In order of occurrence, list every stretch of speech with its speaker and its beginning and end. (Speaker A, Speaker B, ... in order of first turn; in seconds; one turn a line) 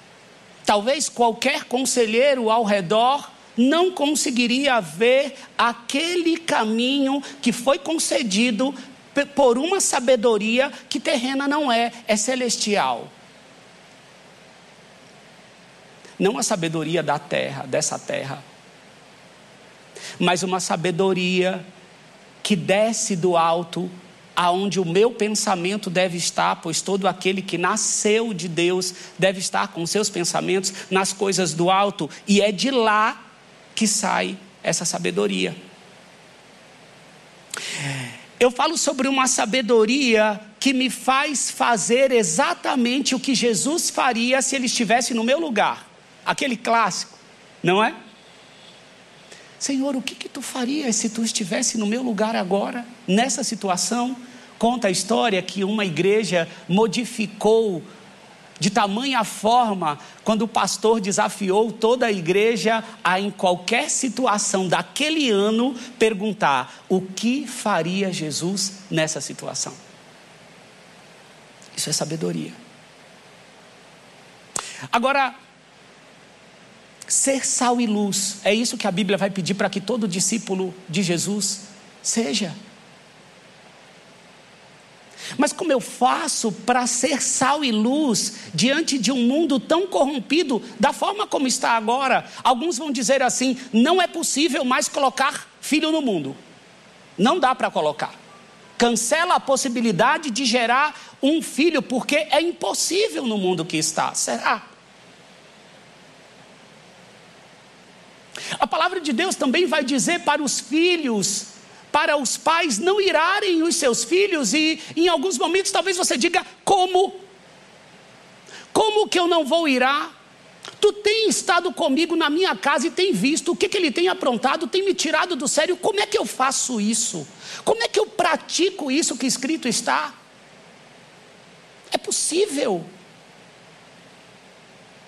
Speaker A: 0.7-13.1
Speaker A: 16.2-18.5
Speaker A: 20.2-21.6
Speaker A: 22.4-33.2
Speaker A: 33.8-35.6
Speaker A: 38.4-48.0
Speaker A: 49.6-57.9
Speaker A: 58.6-69.8
Speaker A: 71.7-72.6
Speaker A: 74.9-75.4
Speaker A: 77.1-82.6
Speaker A: 85.4-96.4
Speaker A: 97.2-98.2
Speaker A: 98.8-104.7
Speaker A: 108.5-117.2
Speaker A: 118.7-120.1
Speaker A: 120.8-130.2
Speaker A: 131.9-132.9